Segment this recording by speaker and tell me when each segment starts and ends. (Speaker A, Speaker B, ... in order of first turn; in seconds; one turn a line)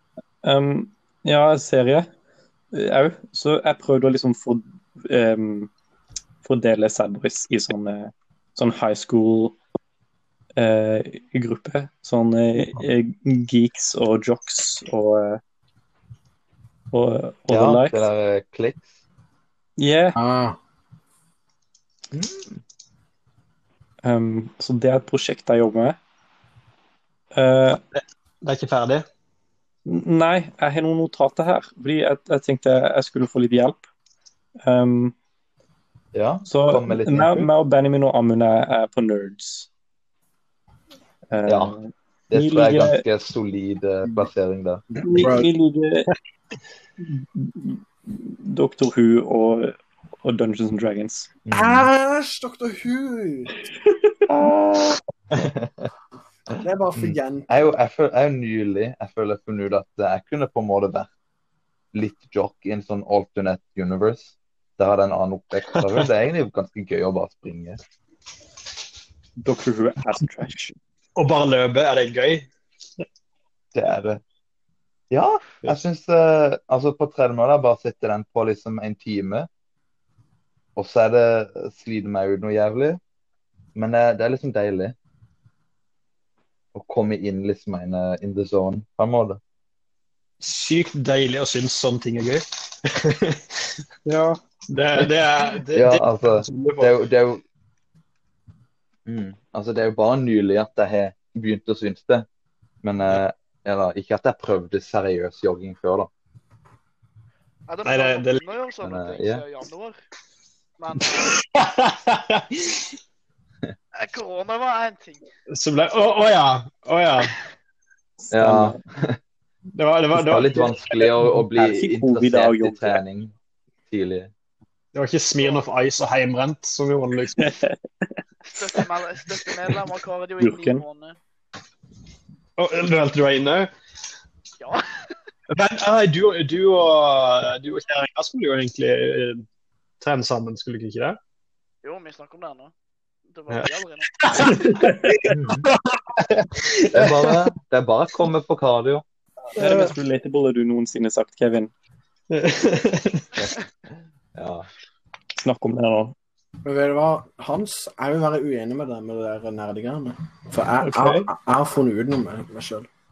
Speaker A: 0.4-2.1
Speaker A: 2.7-5.7
Speaker A: 6.4-9.6
Speaker A: 10.6-15.4
Speaker A: 16.9-18.0
Speaker B: 17.5-18.9
Speaker A: 19.8-20.2
Speaker C: 20.1-20.6
Speaker B: 22.1-22.6
Speaker A: 24.0-26.0
Speaker A: 27.3-27.8
Speaker D: 27.9-29.1
Speaker A: 29.9-33.8
Speaker A: 34.6-35.1
Speaker B: 36.1-37.5
Speaker A: 36.5-39.7
Speaker A: 41.3-43.0
Speaker B: 41.5-41.7
Speaker B: 42.3-44.8
Speaker C: 44.9-45.5
Speaker A: 45.0-46.1
Speaker A: 47.0-51.3
Speaker B: 51.5-51.9
Speaker C: 51.5-53.6
Speaker B: 54.3-55.9
Speaker C: 56.5-57.5
Speaker B: 57.0-61.1
Speaker B: 61.9-67.8
Speaker A: 69.4-70.7
Speaker D: 71.2-72.5
Speaker B: 73.7-74.2
Speaker B: 75.1-79.5
Speaker B: 80.8-83.0
Speaker B: 83.7-84.9
Speaker B: 86.7-89.4
Speaker D: 90.4-97.0
Speaker B: 95.7-97.4
Speaker B: 99.0-102.2
Speaker B: 102.8-106.1
Speaker E: 107.7-110.0
Speaker D: 107.8-108.5
Speaker B: 108.8-109.4
Speaker E: 110.8-111.4
Speaker D: 111.1-112.9
Speaker E: 113.9-115.2
Speaker D: 115.5-117.3
Speaker A: 118.2-118.8
Speaker B: 118.3-119.2
Speaker D: 119.7-121.1
Speaker B: 120.1-123.3
Speaker A: 121.4-123.0
Speaker B: 123.9-124.3
Speaker D: 124.9-127.5
Speaker E: 125.4-125.7
Speaker A: 127.4-128.2
Speaker E: 128.5-131.2
Speaker A: 130.4-130.8
Speaker D: 132.6-133.7
Speaker E: 134.6-135.0
Speaker D: 135.5-139.4
Speaker D: 140.0-141.2
Speaker E: 141.8-142.7
Speaker E: 143.3-144.7
Speaker D: 143.5-147.4
Speaker B: 145.3-145.6
Speaker B: 146.9-149.0
Speaker D: 149.5-149.9
Speaker A: 149.6-151.7
Speaker D: 152.3-153.4
Speaker B: 154.3-154.7
Speaker A: 155.4-156.1
Speaker C: 156.6-162.9
Speaker A: 160.8-161.3